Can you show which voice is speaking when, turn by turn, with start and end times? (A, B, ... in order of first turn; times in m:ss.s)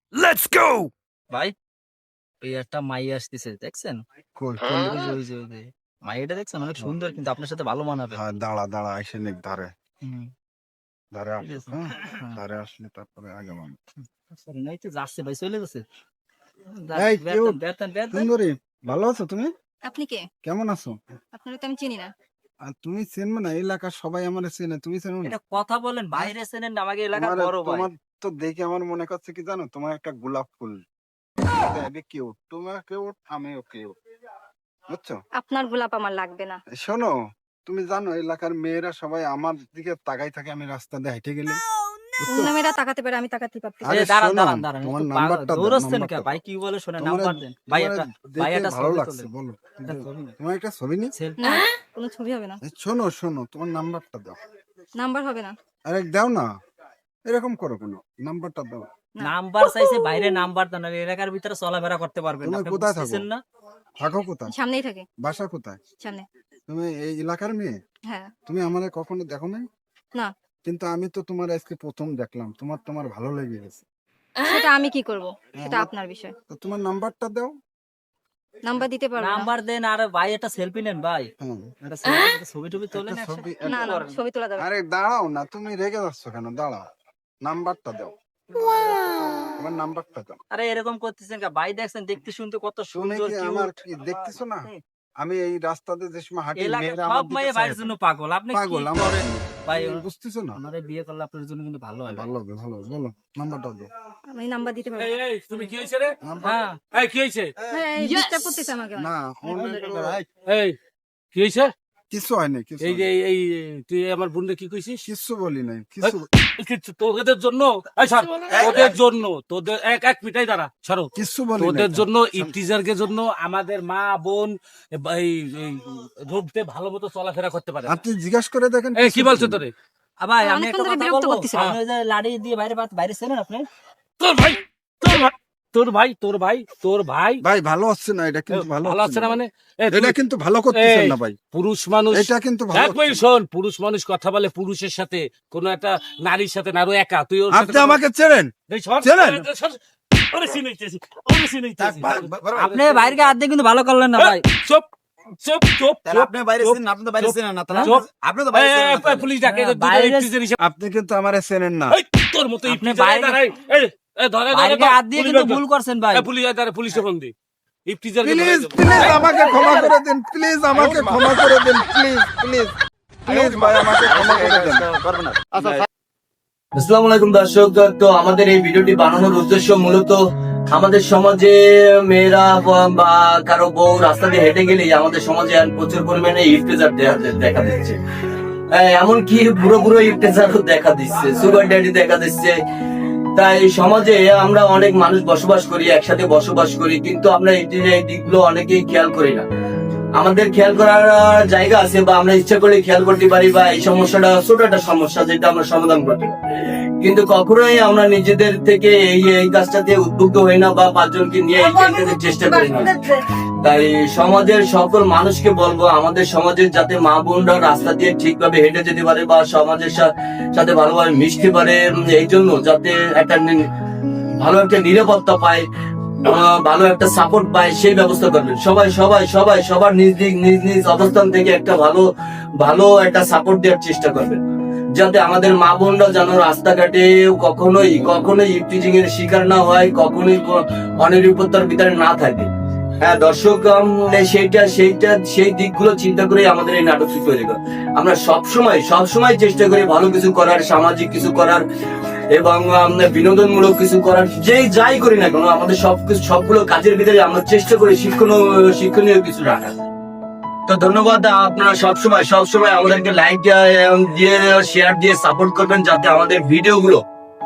0:00.2-0:00.8 A
0:02.4-0:04.0 B
0:04.4-0:04.9 C
0:04.8-0:08.2 B
0:08.1-0:09.7 C
0:10.0-0:10.3 B
0:11.1-0:13.8 C
0:11.4-0:12.4 B
0:14.4-0:15.8 B
0:16.8-0:18.3 B
0:17.0-0:17.6 C
0:18.1-0:19.5 C
0:19.8-0:20.3 D
0:20.4-0:20.9 C
0:21.4-0:22.1 D
0:22.7-0:25.4 C
0:25.2-0:27.9 B
0:27.1-0:30.8 C
0:31.5-0:33.9 C
0:34.9-0:35.2 C
0:35.4-0:36.6 D
0:36.7-0:37.1 C
0:37.7-0:41.6 C
0:42.2-0:42.6 C
0:42.3-0:43.9 D
0:43.8-0:46.4 C
0:43.9-0:49.3 B
0:47.0-0:51.1 C
0:49.8-0:50.4 B
0:51.2-0:51.7 B
0:51.4-0:52.6 D
0:52.6-0:54.4 C
0:55.0-0:55.6 D
0:55.9-0:56.5 C
0:57.3-0:58.8 C
0:59.2-1:03.4 B
1:02.4-1:03.3 C
1:04.0-1:04.5 C
1:04.5-1:05.1 D
1:05.2-1:05.8 C
1:06.0-1:06.2 D
1:06.7-1:07.7 C
1:08.1-1:08.3 D
1:08.5-1:09.6 C
1:10.6-1:13.8 C
1:14.4-1:16.3 D
1:15.6-1:15.9 C
1:16.5-1:17.5 C
1:18.7-1:19.5 D
1:19.2-1:21.3 B
1:21.4-1:21.7 C
1:21.8-1:24.1 B
1:22.9-1:23.9 C
1:23.6-1:24.7 D
1:24.6-1:26.8 C
1:27.4-1:30.4 C
1:30.5-1:33.7 B
1:32.9-1:34.7 C
1:34.2-1:34.8 B
1:35.2-1:37.9 C
1:36.6-1:42.3 B
1:38.5-1:40.6 C
1:42.1-1:43.9 C
1:44.3-1:45.7 D
1:45.0-1:46.2 A
1:46.2-1:46.6 C
1:46.4-1:46.8 B
1:46.9-1:47.5 A
1:47.7-1:49.9 D
1:49.0-1:50.2 C
1:50.4-1:50.8 A
1:51.3-1:51.7 A
1:52.1-1:53.1 C
1:52.8-1:55.0 A
1:55.1-1:56.3 C
1:56.0-2:08.0 A
1:58.5-1:58.9 E
2:01.2-2:02.6 C
2:07.9-2:09.6 C
2:09.0-2:09.7 A
2:10.2-2:13.7 B
2:10.4-2:11.7 D
2:14.2-2:17.4 A
2:17.4-2:19.4 C
2:18.5-2:20.2 A
2:19.9-2:21.4 C
2:20.8-2:28.0 A
2:22.1-2:23.2 C
2:27.5-2:29.5 C
2:28.7-2:33.3 A
2:31.8-2:32.7 E
2:32.7-2:34.4 B
2:34.2-2:34.9 A
2:35.4-2:40.6 A
2:36.0-2:39.3 E
2:37.7-2:38.0 B
2:39.4-2:40.3 B
2:40.6-2:42.0 C
2:41.9-2:45.6 A
2:42.7-2:43.4 B
2:44.5-2:46.3 B
2:46.1-2:47.3 A
2:47.9-2:49.8 A
2:48.2-2:52.7 C
2:50.7-2:51.2 E
2:53.3-2:54.9 C
2:53.3-2:55.9 E
2:55.6-2:55.9 F
2:56.8-3:00.2 F
3:00.7-3:08.0 F
3:08.7-3:12.5 F
3:13.4-3:19.4 F
3:20.2-3:26.3 F
3:27.0-3:32.9 F
3:31.6-3:33.2 D
3:33.6-3:43.6 F
3:44.4-3:45.6 F
3:46.3-3:52.0 F
3:52.6-3:54.4 F
3:55.0-4:02.5 F
4:03.0-4:11.6 F
4:12.4-4:19.7 F
4:20.7-4:27.0 F